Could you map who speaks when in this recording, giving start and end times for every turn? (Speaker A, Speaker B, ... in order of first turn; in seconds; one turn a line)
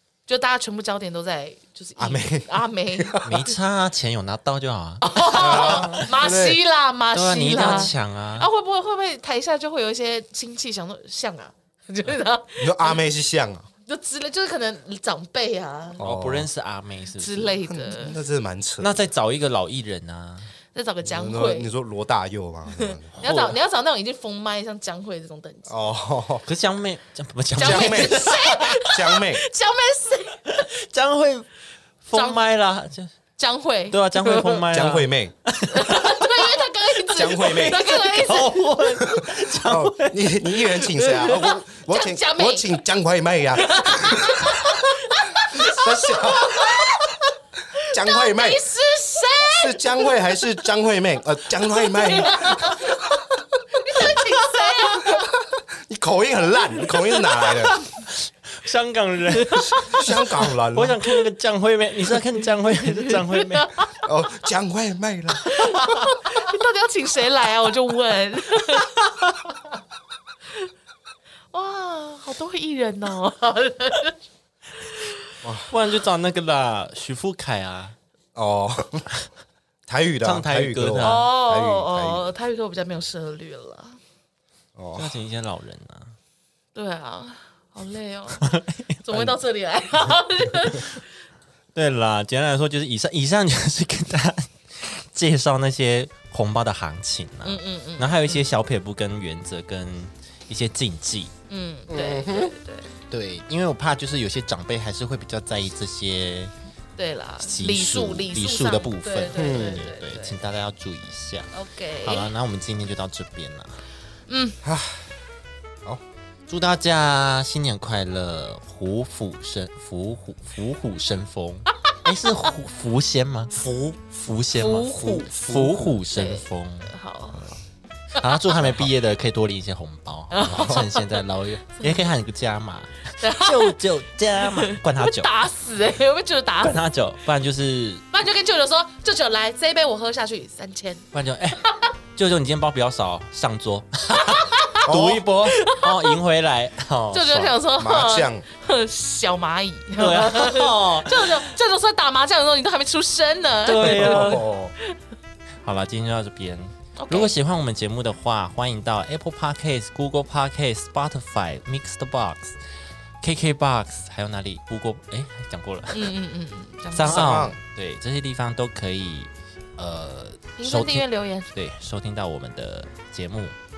Speaker A: 0.3-3.3
Speaker B: 2.0-3.5
Speaker C: 3.2-6.1
Speaker A: 5.0-13.0
Speaker B: 5.3-6.6
Speaker C: 7.1-8.5
Speaker B: 12.6-13.7
Speaker A: 13.8-16.0
Speaker B: 16.0-16.5
Speaker C: 16.0-17.6
Speaker A: 17.2-18.2
Speaker B: 17.7-18.9
Speaker C: 18.8-20.5
Speaker A: 20.7-21.7
Speaker B: 21.0-23.2
Speaker A: 22.7-25.7
Speaker C: 23.2-23.6
Speaker B: 25.7-26.4
Speaker C: 26.4-28.8
Speaker A: 27.6-30.6
Speaker B: 27.6-29.4
Speaker C: 30.5-31.5
Speaker C: 32.0-33.1
Speaker A: 32.1-32.4
Speaker A: 33.4-34.6
Speaker C: 33.9-36.6
Speaker B: 34.7-35.3
Speaker A: 35.7-38.7
Speaker B: 37.1-37.9
Speaker C: 37.4-41.1
Speaker B: 39.0-45.0
Speaker A: 41.1-42.8
Speaker A: 43.5-47.0
Speaker B: 45.5-47.0
Speaker A: 47.8-50.4
Speaker B: 47.9-48.6
Speaker B: 49.5-54.1
Speaker A: 51.7-53.0
Speaker A: 53.7-55.2
Speaker B: 54.9-57.8
Speaker C: 57.4-60.2
Speaker A: 59.4-60.1
Speaker B: 59.9-61.0
Speaker C: 60.7-63.8
Speaker A: 62.8-64.0
Speaker B: 64.0-66.0
Speaker A: 65.4-69.0
Speaker C: 68.8-69.4
Speaker A: 71.5-74.2
Speaker A: 74.9-75.2
Speaker B: 75.4-75.7
Speaker C: 75.7-77.9
Speaker B: 78.3-79.0
Speaker B: 79.9-82.3
Speaker C: 80.2-81.3
Speaker A: 81.0-84.0
Speaker B: 84.8-85.1
Speaker C: 84.9-86.1
Speaker A: 86.7-88.5
Speaker C: 88.4-89.0
Speaker A: 89.0-91.0
Speaker C: 91.7-101.3
Speaker A: 97.4-98.5
Speaker A: 101.5-102.9
Speaker B: 101.9-102.5
Speaker C: 103.1-106.5
Speaker A: 107.0-110.4
Speaker C: 107.4-111.5
Speaker B: 109.4-109.9
Speaker A: 111.5-112.3
Speaker C: 112.0-113.8
Speaker A: 114.3-114.6
Speaker B: 114.6-115.1
Speaker C: 116.5-123.5
Speaker B: 123.5-124.1
Speaker C: 124.1-126.9
Speaker A: 124.5-125.3
Speaker B: 124.9-126.0
Speaker A: 126.1-127.5
Speaker C: 128.2-135.3
Speaker A: 128.2-128.7
Speaker A: 130.3-131.2
Speaker B: 130.5-130.8
Speaker A: 131.8-132.0
Speaker A: 133.2-133.8
Speaker A: 134.4-136.8
Speaker C: 136.6-138.0
Speaker A: 138.1-141.1
Speaker C: 141.1-141.6
Speaker C: 142.2-147.6
Speaker A: 144.1-144.9
Speaker B: 144.9-145.3
Speaker A: 145.4-146.2
Speaker A: 147.1-154.9
Speaker B: 147.8-148.4
Speaker C: 150.0-151.5
Speaker C: 153.6-154.4
Speaker B: 153.8-154.7
Speaker C: 155.6-162.6
Speaker A: 157.0-157.3
Speaker C: 163.2-166.1
Speaker A: 165.9-167.4
Speaker C: 166.9-173.5
Speaker B: 167.0-167.6
Speaker A: 170.6-171.5